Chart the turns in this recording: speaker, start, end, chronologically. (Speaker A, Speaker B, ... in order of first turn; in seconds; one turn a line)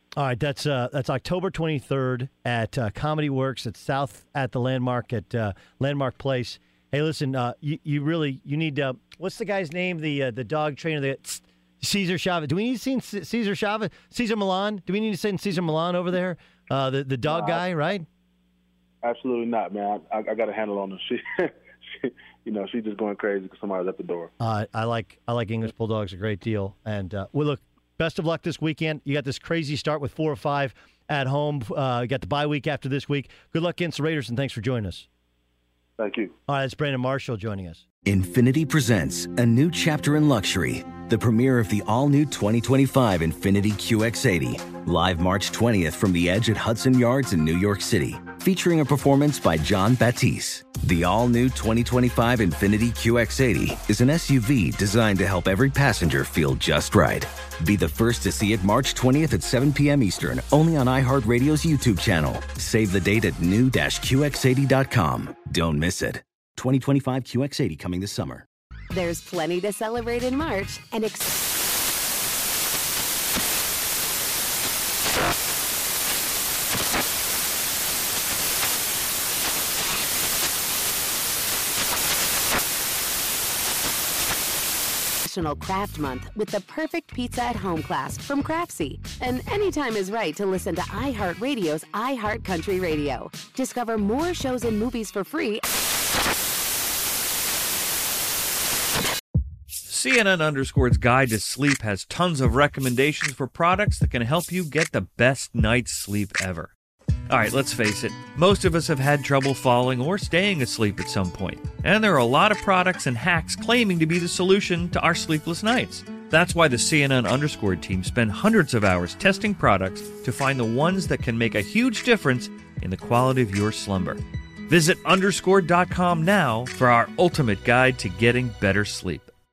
Speaker A: 0.1-18.1
Speaker B: 17.3-17.6
Speaker B: 19.0-24.3
Speaker A: 24.4-35.1
Speaker B: 36.0-36.3
Speaker A: 36.5-37.8
Speaker C: 38.0-68.5
Speaker D: 68.9-71.4
Speaker D: 85.2-95.6
Speaker E: 99.9-106.7
Speaker E: 107.3-129.3